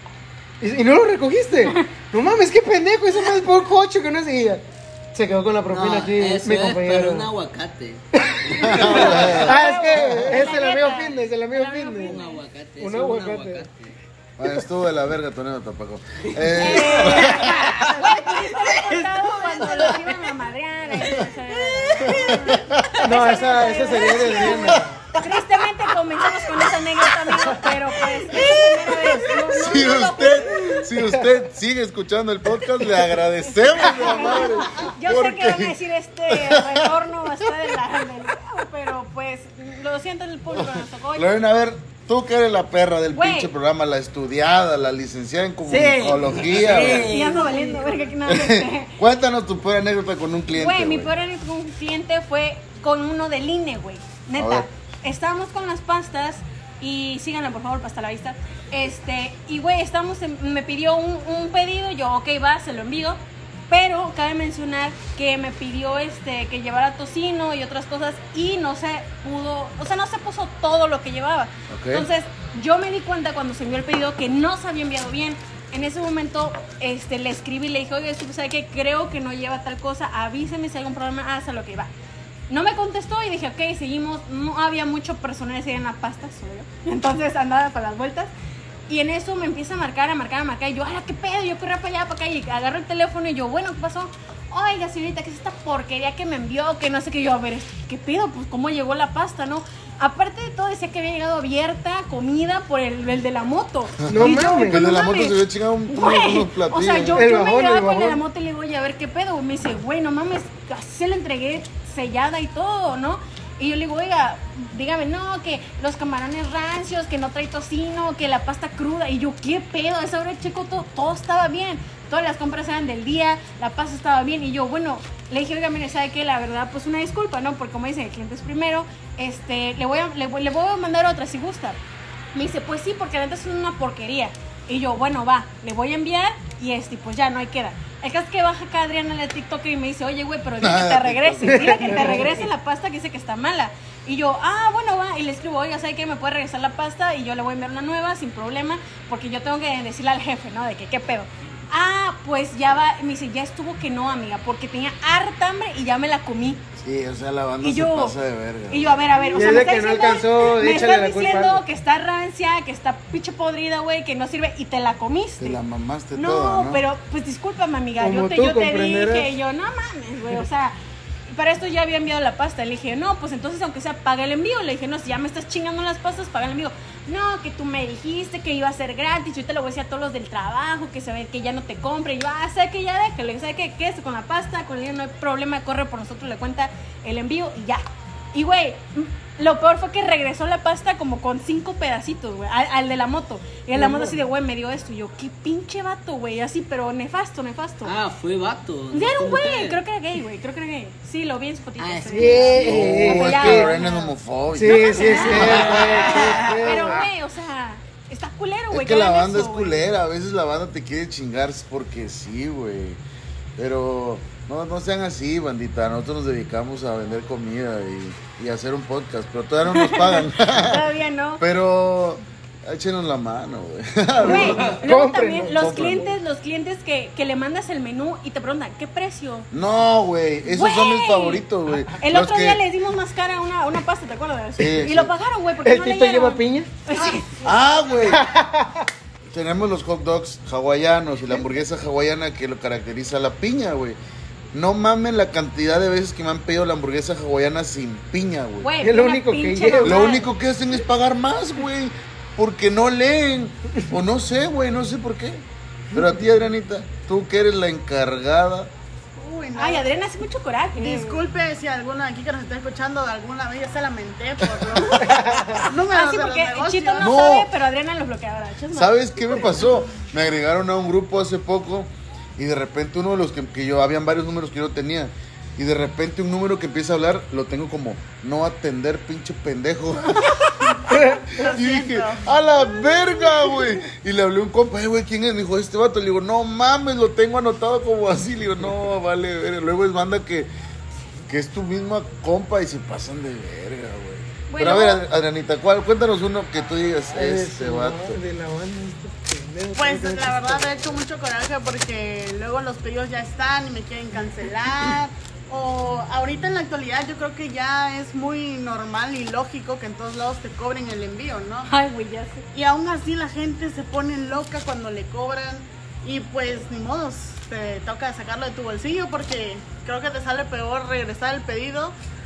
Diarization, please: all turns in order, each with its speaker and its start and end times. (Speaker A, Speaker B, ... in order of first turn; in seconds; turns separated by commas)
Speaker A: 0.6-7.3, Speaker B: 5.7-9.4, Speaker A: 8.2-12.2, Speaker C: 8.5-10.5, Speaker D: 8.8-12.4, Speaker B: 12.0-13.9, Speaker A: 12.8-13.7, Speaker C: 14.4-17.7, Speaker B: 16.5-20.2, Speaker D: 16.5-30.9, Speaker C: 21.0-21.2, Speaker C: 22.0-23.1, Speaker A: 23.0-25.0, Speaker C: 24.3-25.3, Speaker C: 26.4-26.8, Speaker C: 28.3-37.5, Speaker A: 31.0-31.2, Speaker D: 33.6-41.3, Speaker C: 40.5-47.1, Speaker D: 43.1-43.5, Speaker B: 45.6-48.0, Speaker D: 47.0-49.0, Speaker C: 48.2-51.1, Speaker D: 50.5-63.2, Speaker C: 54.4-54.7, Speaker D: 63.7-81.9, Speaker C: 71.7-72.1, Speaker D: 82.5-88.3, Speaker D: 88.9-131.8, Speaker A: 104.1-104.8, Speaker C: 104.2-107.2, Speaker A: 107.1-108.2, Speaker D: 132.3-156.6, Speaker C: 140.6-142.2, Speaker A: 141.4-142.4, Speaker C: 156.8-159.0, Speaker D: 157.6-158.2, Speaker D: 158.7-165.6, Speaker A: 159.3-161.6, Speaker C: 165.4-166.8, Speaker D: 166.1-170.7, Speaker A: 168.0-169.3, Speaker D: 171.3-197.9, Speaker A: 193.7-194.2, Speaker B: 197.8-199.8, Speaker D: 198.9-204.1, Speaker B: 201.8-203.0, Speaker A: 202.1-203.7, Speaker C: 202.6-206.8, Speaker A: 204.5-207.1, Speaker D: 204.6-209.8, Speaker B: 206.2-206.6, Speaker C: 208.7-213.0, Speaker C: 213.6-224.8, Speaker D: 219.7-221.4, Speaker D: 224.2-229.5, Speaker A: 224.2-226.1, Speaker C: 225.4-226.1, Speaker C: 229.5-232.6, Speaker D: 230.4-237.4, Speaker C: 234.6-235.1, Speaker A: 235.6-236.7, Speaker C: 237.4-238.2, Speaker A: 238.1-238.9, Speaker C: 239.3-244.0, Speaker C: 244.5-248.7, Speaker D: 248.6-250.3, Speaker A: 248.8-250.0, Speaker C: 249.8-258.7, Speaker E: 259.1-259.9, Speaker D: 259.5-261.2, Speaker E: 260.8-267.2, Speaker A: 265.0-265.6, Speaker D: 265.7-269.4, Speaker C: 267.0-267.5, Speaker C: 268.7-280.5, Speaker A: 280.9-281.4, Speaker E: 281.3-282.2, Speaker C: 281.4-290.5, Speaker C: 291.3-298.2, Speaker D: 294.5-295.0, Speaker A: 297.1-300.9, Speaker E: 299.7-311.7, Speaker D: 311.6-312.4, Speaker E: 312.5-321.9